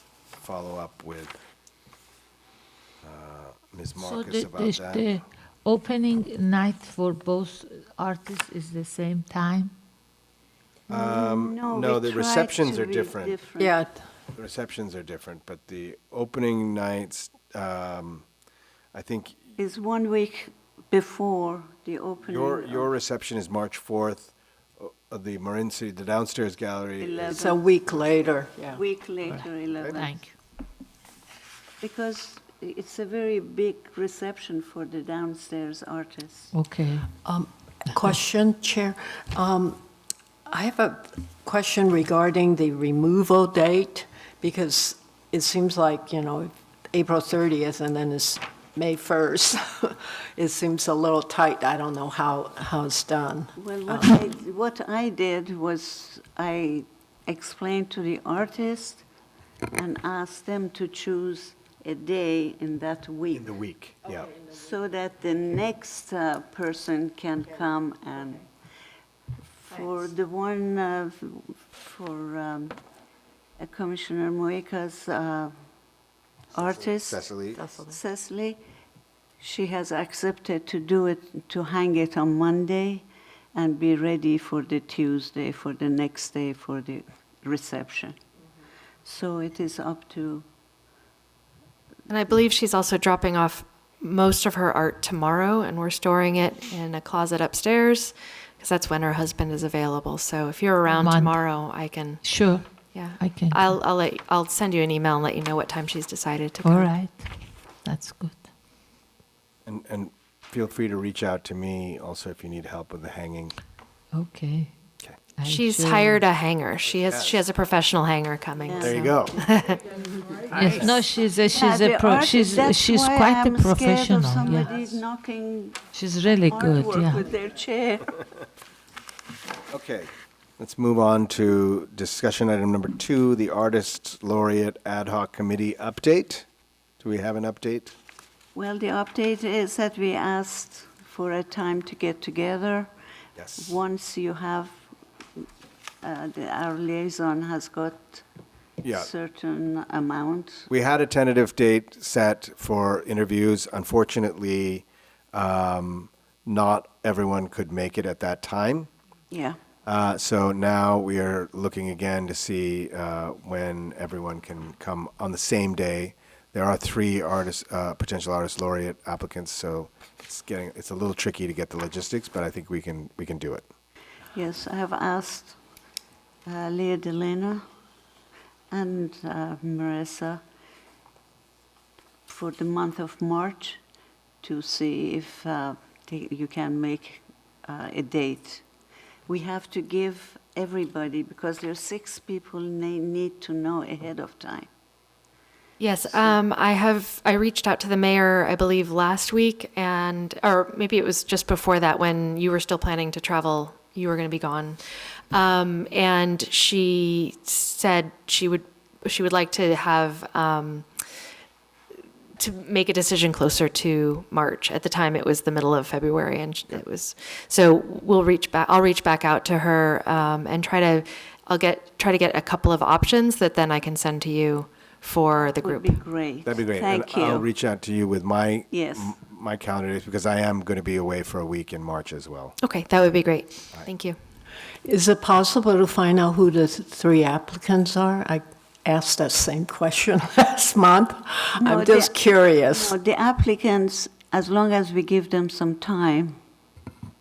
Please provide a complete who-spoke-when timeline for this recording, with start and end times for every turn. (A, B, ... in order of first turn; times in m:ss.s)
0:00.4-0:01.4 A
0:03.0-0:05.1 A
0:04.0-0:09.7 B
0:10.9-0:13.4 A
0:10.9-0:13.7 C
0:13.6-0:14.0 D
0:14.3-0:18.2 A
0:18.9-0:19.4 A
0:19.6-0:22.9 C
0:22.2-0:27.4 A
0:27.0-0:27.7 C
0:27.3-0:28.8 D
0:28.7-0:30.1 C
0:29.8-0:30.0 A
0:29.8-0:30.3 B
0:31.8-0:36.5 C
0:36.5-0:37.1 B
0:37.2-0:39.8 D
0:40.5-0:54.2 D
0:53.6-0:59.0 C
0:59.7-1:03.5 C
1:03.3-1:04.3 A
1:04.4-1:08.5 C
1:09.6-1:12.8 C
1:13.6-1:15.5 C
1:16.5-1:18.6 C
1:16.9-1:17.6 A
1:17.5-1:18.0 E
1:19.4-1:28.1 C
1:29.0-1:30.4 C
1:32.1-1:42.4 E
1:40.8-1:41.5 B
1:42.2-1:42.6 B
1:42.9-1:46.9 E
1:43.2-1:43.8 B
1:46.6-1:48.5 B
1:49.6-1:53.6 A
1:54.1-1:54.7 B
1:55.4-1:56.2 B
1:55.4-1:59.8 E
1:57.1-1:57.4 A
1:58.6-1:59.0 C
1:58.8-1:59.4 A
2:00.5-2:01.0 A
2:00.5-2:04.8 B
2:01.5-2:08.2 C
2:05.9-2:07.3 B
2:09.7-2:16.5 A
2:17.0-2:17.9 A
2:18.5-2:22.9 C
2:23.4-2:23.7 A
2:23.6-2:24.8 C
2:26.0-2:28.2 C
2:28.8-2:29.1 A
2:28.9-2:30.7 C
2:30.7-2:38.9 A
2:39.3-2:39.6 C
2:39.8-2:53.6 A
2:54.3-2:55.6 C
2:56.4-2:57.6 C
2:58.7-3:00.4 C
3:02.3-3:03.8 C
3:04.4-3:08.6 C
3:09.3-3:14.7 C
3:15.8-3:24.8 E
3:25.3-3:31.1 E
3:32.4-3:46.0 E
3:45.4-3:47.4 C
3:46.4-3:52.6 A
3:48.7-3:49.1 C
3:52.6-3:54.2 E
3:54.8-4:02.9 D
4:01.6-4:02.1 C
4:02.7-4:06.4 C